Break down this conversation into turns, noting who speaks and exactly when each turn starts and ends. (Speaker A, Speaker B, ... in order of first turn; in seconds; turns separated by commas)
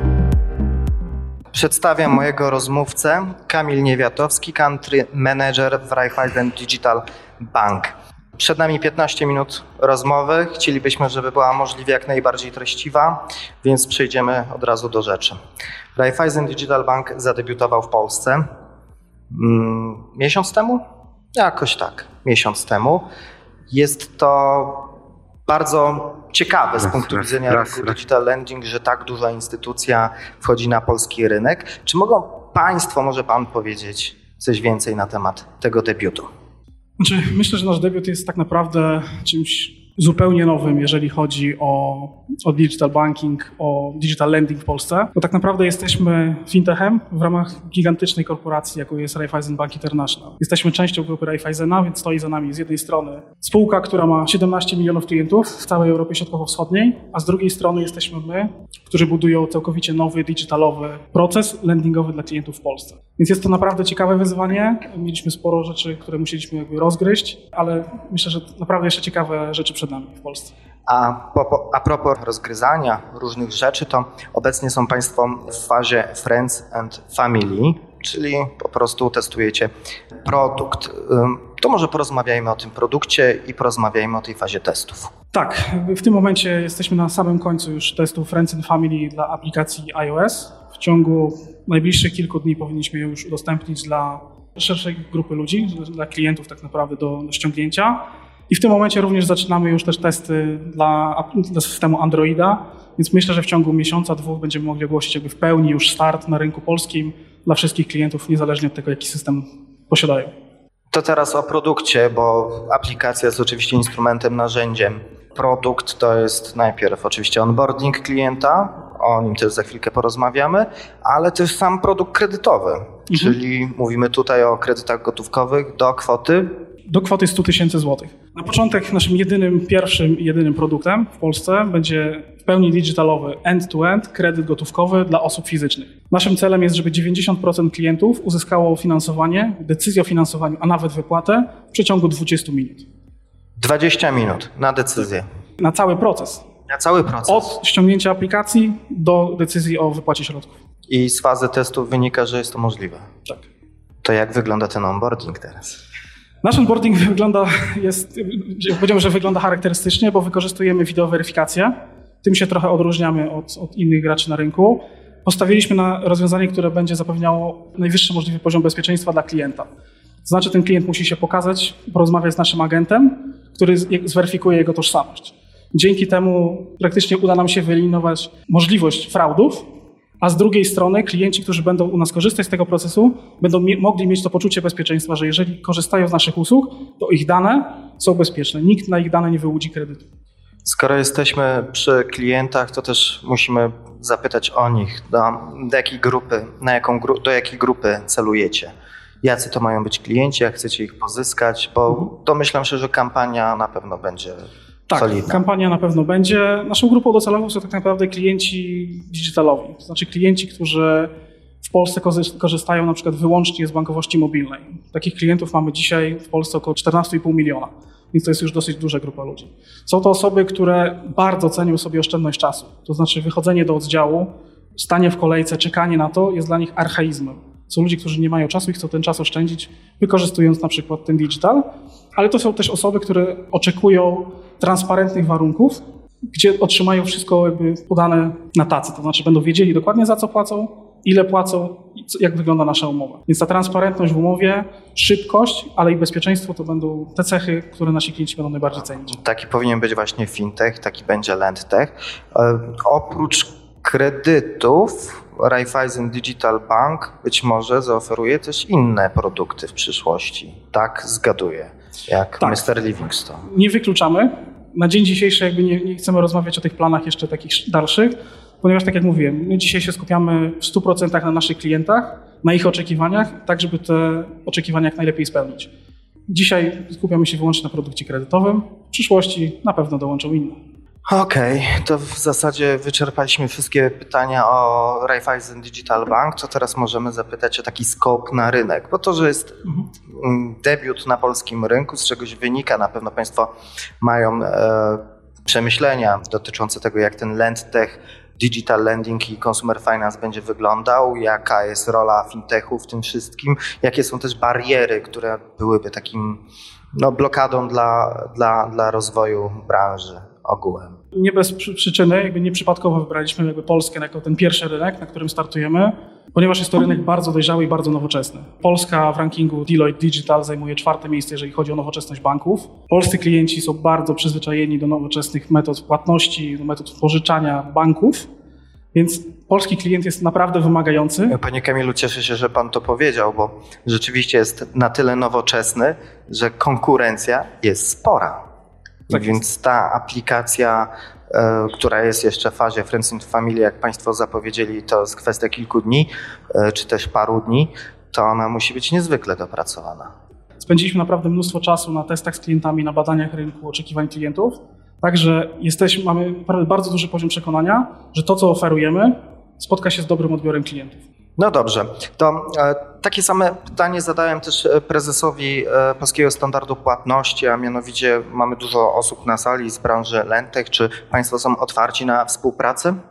Speaker A: 1.5-15.4, Speaker A: 15.9-18.4, Speaker A: 19.3-20.8, Speaker A: 21.3-23.1, Speaker A: 23.7-24.9, Speaker A: 25.5-36.3, Speaker B: 37.0-70.5, Speaker A: 70.9-79.7, Speaker A: 80.2-85.1, Speaker B: 85.3-110.3, Speaker A: 110.9-126.5, Speaker B: 123.1-123.3, Speaker B: 126.9-142.8, Speaker A: 143.6-145.2, Speaker B: 145.6-146.4, Speaker A: 146.7-147.5, Speaker B: 147.3-150.6, Speaker A: 150.9-153.1, Speaker A: 154.0-155.8, Speaker B: 156.4-169.7, Speaker B: 170.2-179.7, Speaker B: 180.2-190.0, Speaker A: 190.6-198.7, Speaker A: 199.2-205.4, Speaker B: 204.9-211.1, Speaker B: 211.6-249.2, Speaker A: 249.1-263.5, Speaker B: 262.4-262.6, Speaker B: 263.4-275.7, Speaker B: 276.3-280.6, Speaker A: 281.1-306.4, Speaker A: 307.0-310.9, Speaker B: 311.1-328.3, Speaker B: 328.9-331.4, Speaker A: 331.3-338.4, Speaker A: 339.1-350.1, Speaker B: 350.6-361.0, Speaker A: 361.4-373.0